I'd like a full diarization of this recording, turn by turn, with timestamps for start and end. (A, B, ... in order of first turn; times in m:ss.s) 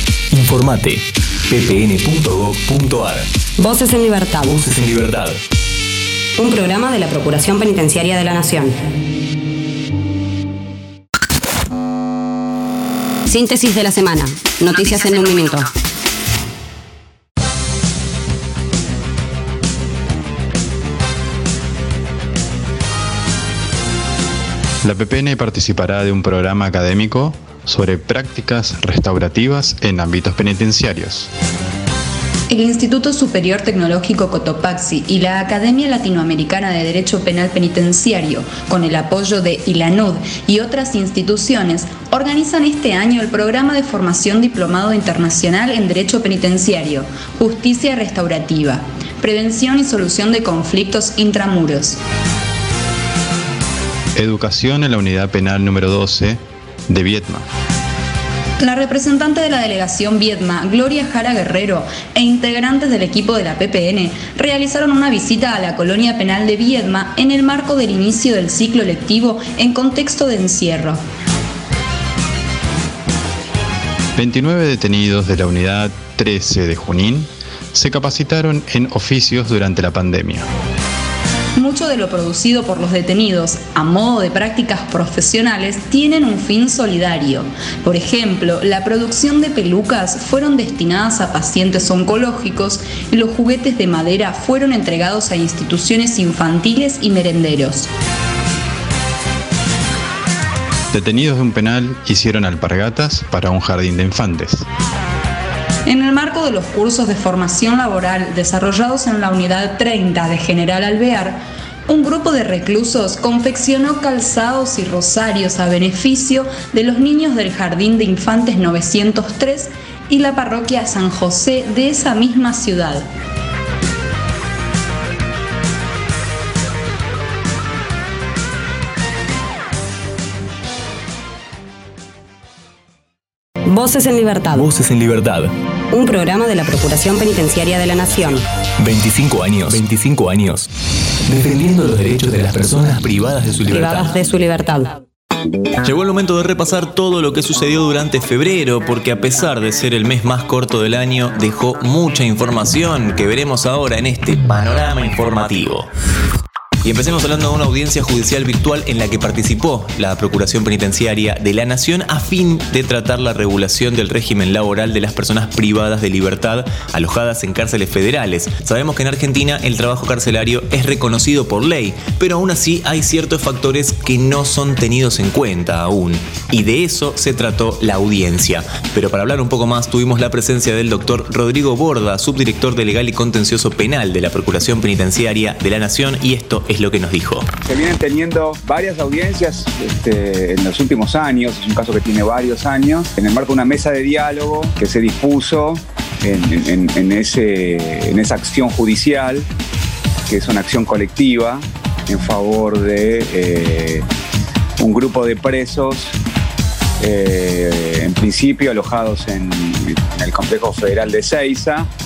0:00.3-0:03.3 A
0:03.6-0:04.6 B
0:04.4-0:05.4 A
0:06.4-0:08.8 B
0:13.3-0:15.7 B
0:24.8-0:31.3 C
0:32.5-0:52.0 D
0:54.1-0:57.4 C
0:58.6-1:11.0 D
1:14.2-1:20.5 C
1:21.6-1:37.9 D
1:40.9-1:44.7 C
1:45.9-2:03.1 D
2:13.7-2:14.7 B
2:14.5-2:15.5 A
2:15.9-2:18.4 B
2:18.8-2:20.7 A
2:21.3-2:24.3 A
2:23.7-2:24.9 B
2:25.8-2:35.9 A
2:36.8-3:07.5 A
3:07.6-3:19.5 E
3:20.3-3:24.0 E
3:24.8-3:26.2 E
3:27.0-3:31.9 E